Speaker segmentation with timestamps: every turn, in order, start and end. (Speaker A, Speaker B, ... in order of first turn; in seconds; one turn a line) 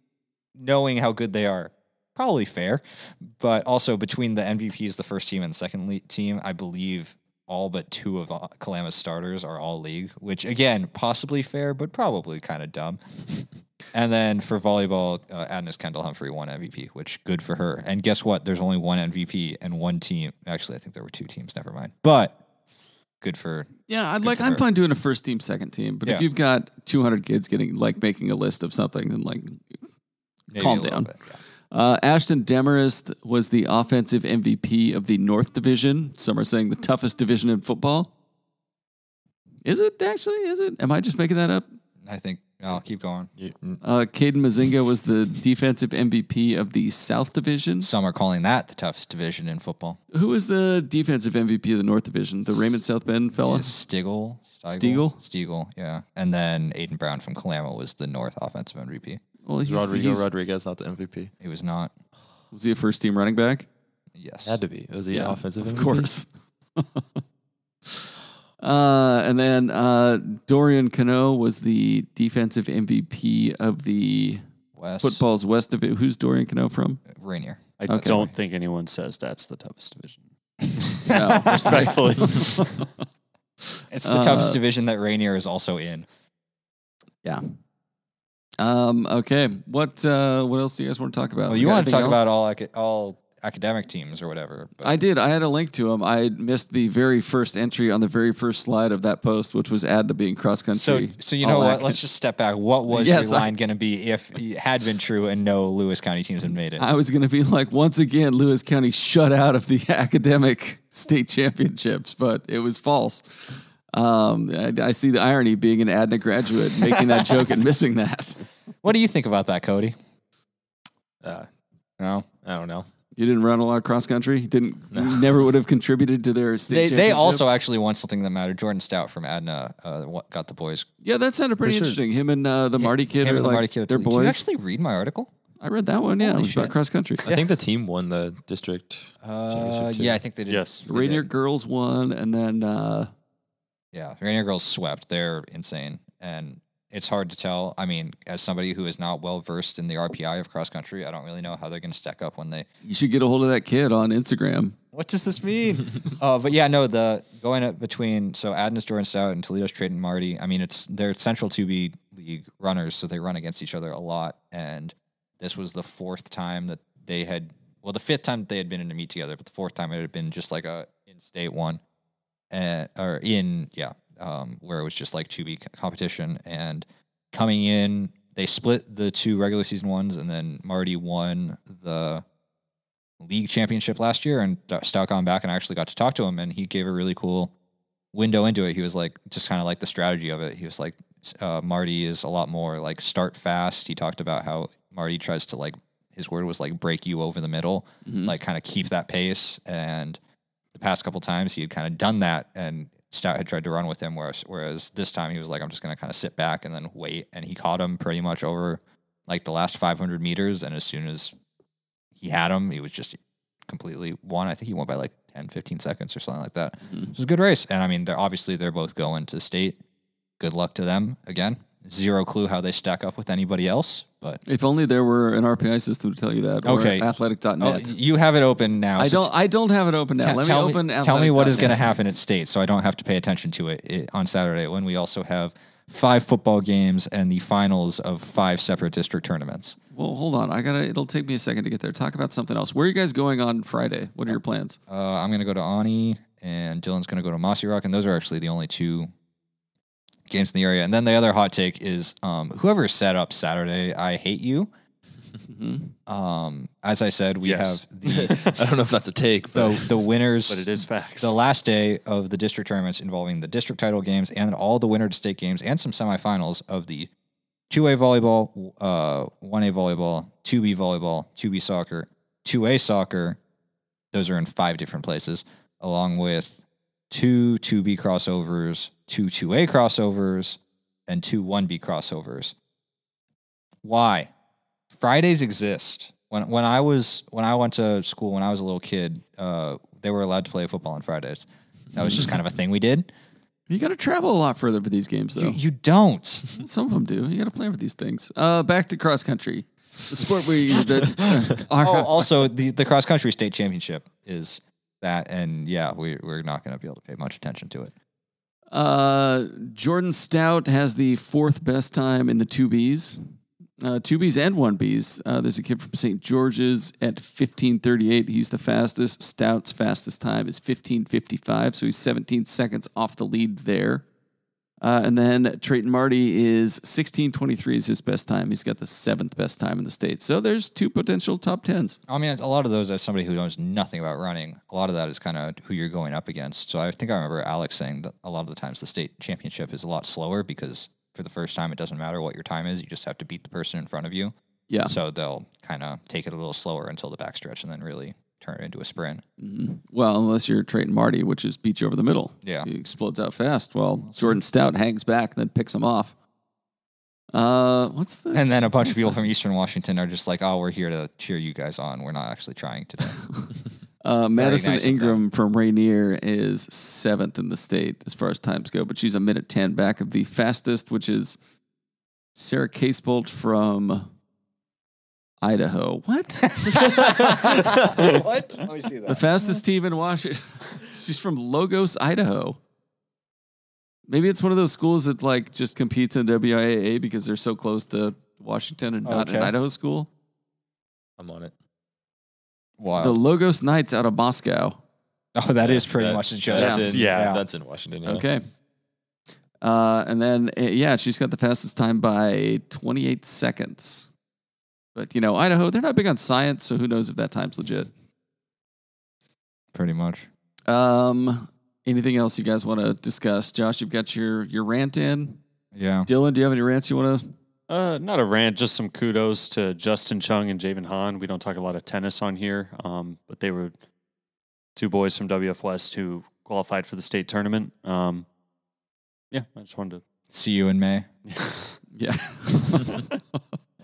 Speaker A: 0.6-13.0
Speaker A: 13.9-22.4
Speaker A: 23.2-24.6
Speaker B: 23.9-29.7
Speaker A: 30.5-31.4
Speaker B: 30.5-31.1
Speaker B: 31.7-38.1
Speaker B: 39.6-41.7
Speaker A: 42.0-43.3
Speaker C: 43.4-43.8
Speaker B: 43.8-47.9
Speaker A: 47.8-50.0
Speaker B: 50.1-53.7
Speaker A: 52.5-52.8
Speaker A: 53.4-59.2
Speaker B: 54.7-55.2
Speaker B: 59.5-60.3
Speaker C: 59.6-61.3
Speaker A: 61.4-61.9
Speaker B: 62.5-63.7
Speaker A: 64.2-64.5
Speaker C: 64.5-66.1
Speaker B: 65.1-67.0
Speaker B: 68.6-74.4
Speaker A: 74.8-75.2
Speaker B: 75.0-77.0
Speaker A: 77.1-78.3
Speaker D: 77.8-80.2
Speaker B: 77.9-78.2
Speaker D: 80.8-82.9
Speaker B: 81.1-82.8
Speaker A: 81.2-81.9
Speaker A: 83.9-86.1
Speaker B: 84.0-84.6
Speaker B: 87.2-87.5
Speaker B: 88.6-92.3
Speaker A: 91.5-95.0
Speaker B: 94.8-102.0
Speaker A: 100.7-106.8
Speaker B: 102.9-103.5
Speaker B: 106.8-118.5
Speaker A: 118.8-120.0
Speaker C: 121.2-121.5
Speaker A: 122.0-122.3
Speaker C: 122.4-122.9
Speaker B: 123.2-127.4
Speaker C: 124.9-125.3
Speaker A: 126.7-130.9
Speaker B: 131.0-134.4
Speaker C: 131.6-132.0
Speaker A: 132.8-135.3
Speaker B: 135.6-137.2
Speaker A: 136.2-136.7
Speaker C: 137.2-140.2
Speaker A: 139.2-141.3
Speaker D: 140.5-140.8
Speaker B: 140.9-143.1
Speaker A: 143.9-152.7
Speaker B: 152.8-154.8
Speaker A: 154.9-171.8
Speaker A: 172.5-182.2
Speaker A: 183.2-187.5
Speaker A: 188.1-200.2
Speaker B: 198.1-198.3
Speaker A: 200.7-211.3
Speaker A: 212.2-219.8
Speaker B: 216.9-217.2
Speaker A: 220.4-224.4
Speaker B: 224.5-227.9
Speaker A: 226.7-229.3
Speaker B: 229.0-231.9
Speaker A: 230.2-239.8
Speaker B: 239.9-244.8
Speaker A: 244.3-249.1
Speaker A: 250.3-254.7
Speaker B: 255.5-255.9
Speaker A: 256.1-258.5
Speaker D: 257.4-258.6
Speaker C: 258.0-260.0
Speaker A: 259.5-267.1
Speaker D: 260.5-261.3
Speaker A: 267.7-273.4
Speaker A: 274.1-282.6
Speaker A: 283.8-284.3
Speaker A: 284.9-293.1
Speaker B: 293.7-295.6
Speaker A: 295.4-296.5
Speaker B: 296.6-302.2
Speaker A: 301.8-307.9
Speaker B: 308.7-313.2
Speaker B: 313.8-324.1
Speaker B: 324.8-332.0
Speaker A: 332.1-349.2
Speaker B: 344.7-344.9
Speaker B: 349.4-356.1
Speaker A: 352.4-352.7
Speaker A: 354.0-354.4
Speaker B: 357.3-359.2
Speaker A: 358.3-363.2
Speaker B: 364.0-371.4
Speaker A: 364.4-365.2
Speaker B: 372.4-374.1
Speaker B: 375.4-377.7
Speaker A: 376.8-379.6
Speaker B: 379.1-382.6
Speaker B: 384.1-390.1
Speaker A: 389.1-389.5
Speaker C: 391.2-391.5
Speaker A: 392.8-393.2
Speaker B: 393.0-394.8
Speaker A: 395.4-397.4
Speaker C: 395.6-398.3
Speaker B: 396.6-396.9
Speaker D: 396.9-397.3
Speaker B: 398.1-398.4
Speaker B: 399.6-404.1
Speaker B: 404.9-407.9
Speaker A: 409.7-410.3
Speaker B: 410.7-415.4
Speaker A: 415.7-416.1
Speaker B: 416.1-417.4
Speaker D: 417.7-423.8
Speaker D: 424.8-428.3
Speaker D: 429.3-430.0
Speaker A: 430.3-431.1
Speaker D: 431.3-431.8
Speaker B: 431.9-433.0